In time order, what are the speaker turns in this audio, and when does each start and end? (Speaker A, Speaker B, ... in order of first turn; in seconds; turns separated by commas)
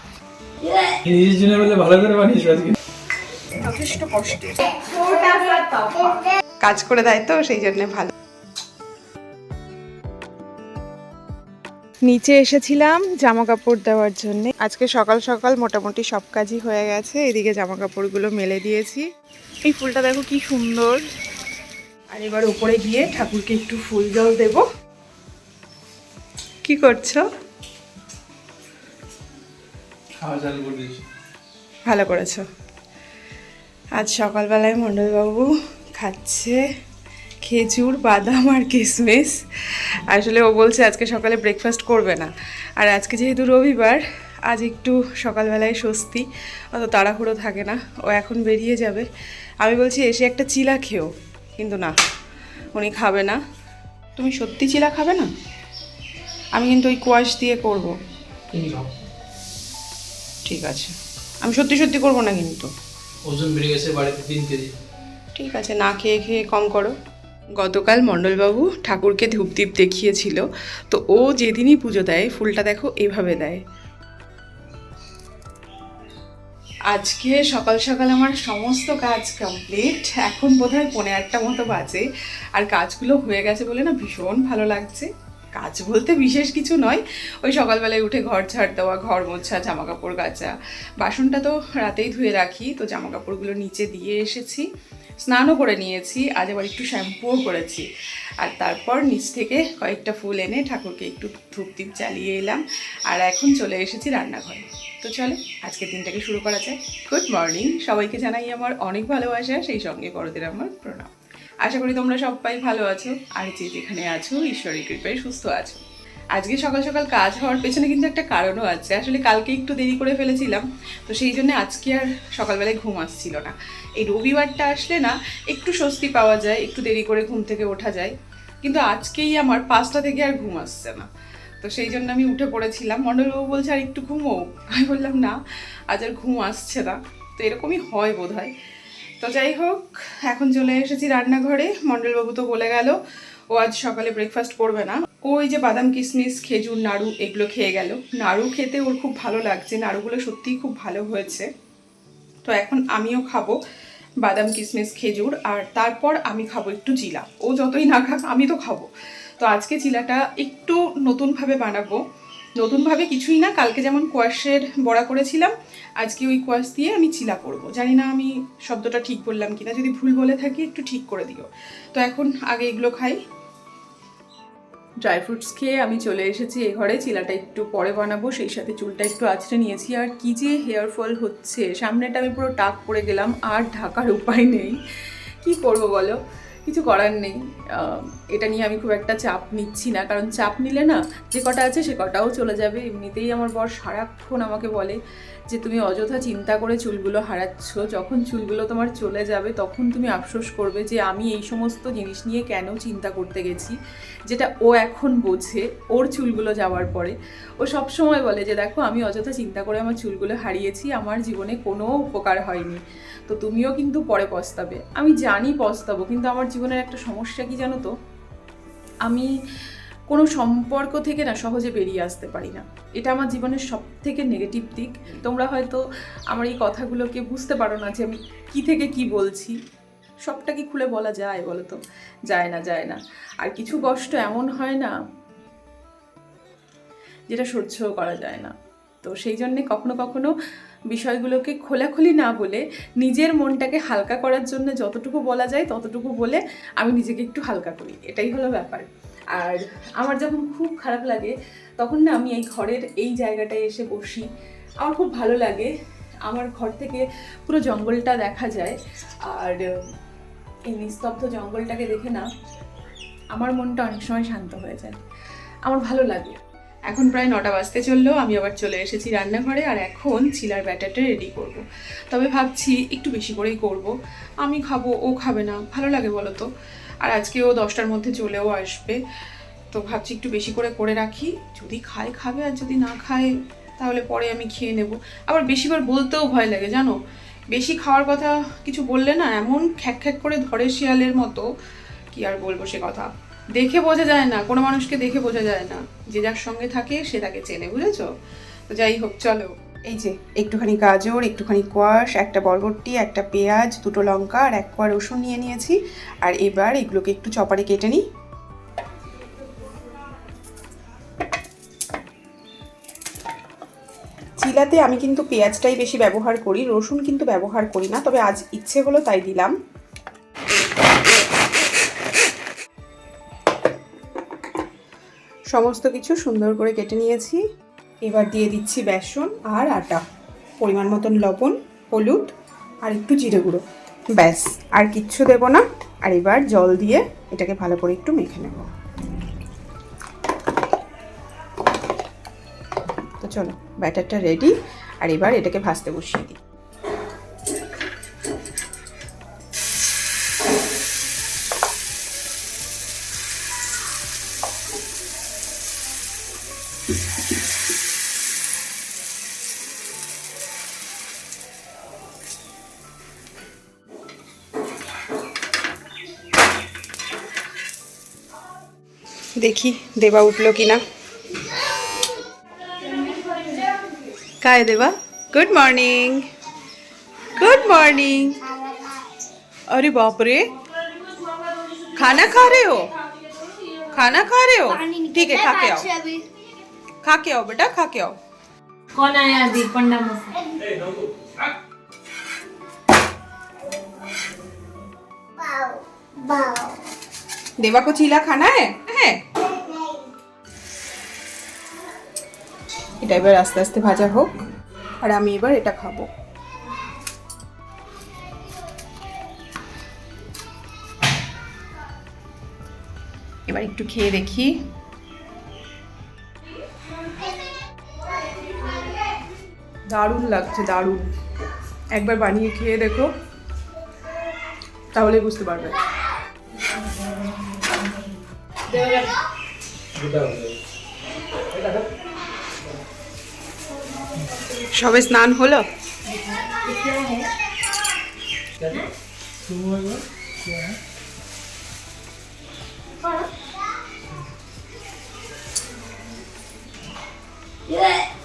Speaker A: 0.8-2.8, Speaker B: 3.6-8.1, Speaker B: 12.1-19.1, Speaker B: 19.6-21.0, Speaker B: 22.1-24.6, Speaker B: 26.6-27.2, Speaker A: 30.2-31.1, Speaker B: 31.9-32.4, Speaker B: 33.9-36.6, Speaker B: 37.4-39.4, Speaker B: 40.1-49.0, Speaker B: 49.6-51.9, Speaker B: 52.7-53.4, Speaker B: 54.1-55.3, Speaker B: 56.5-57.9, Speaker A: 58.5-58.9, Speaker B: 60.5-62.7, Speaker A: 63.2-64.7, Speaker B: 65.3-66.9, Speaker B: 67.6-73.6, Speaker B: 76.9-94.6, Speaker B: 95.2-97.8, Speaker B: 98.4-111.1, Speaker B: 111.6-115.8, Speaker B: 116.3-131.1, Speaker B: 131.6-135.3, Speaker B: 135.9-138.5, Speaker B: 139.2-142.9, Speaker B: 143.5-151.5, Speaker B: 152.4-153.5, Speaker B: 154.2-158.9, Speaker B: 159.4-162.0, Speaker B: 162.6-173.2, Speaker B: 175.0-184.7, Speaker B: 185.4-195.0, Speaker B: 195.5-203.7, Speaker B: 204.3-217.9, Speaker B: 220.1-225.8, Speaker B: 226.3-229.6, Speaker B: 230.2-234.9, Speaker B: 237.3-240.3, Speaker B: 240.9-254.2, Speaker B: 254.8-255.7, Speaker B: 256.2-258.8, Speaker B: 259.3-259.6, Speaker B: 260.7-262.2, Speaker B: 263.3-264.9, Speaker B: 265.6-273.9, Speaker B: 274.4-276.4, Speaker B: 277.0-279.0, Speaker B: 279.7-287.0, Speaker B: 287.5-291.4, Speaker B: 292.1-298.1, Speaker B: 298.7-308.0, Speaker B: 314.4-319.5, Speaker B: 325.5-327.4, Speaker B: 328.0-330.0, Speaker B: 330.6-332.3, Speaker B: 332.8-338.6, Speaker B: 343.2-346.4, Speaker B: 369.4-370.8, Speaker C: 372.7-373.8, Speaker B: 374.4-376.2, Speaker B: 377.3-378.4, Speaker B: 379.7-380.5, Speaker C: 380.5-384.2, Speaker B: 381.9-382.9, Speaker B: 383.9-385.9, Speaker C: 384.9-385.2, Speaker C: 385.9-386.2, Speaker B: 387.0-388.1, Speaker C: 388.9-390.5, Speaker A: 390.5-391.5, Speaker C: 395.4-396.7, Speaker B: 397.6-399.2, Speaker B: 403.0-404.3, Speaker B: 405.0-406.1, Speaker B: 413.5-414.5, Speaker B: 419.9-421.1, Speaker B: 421.9-423.1, Speaker B: 424.9-425.8, Speaker C: 426.6-428.0, Speaker C: 428.7-429.2, Speaker A: 429.9-430.6, Speaker A: 431.5-431.9, Speaker B: 434.7-435.6, Speaker C: 436.0-437.3, Speaker A: 439.4-440.8, Speaker C: 443.0-443.3, Speaker C: 447.7-448.1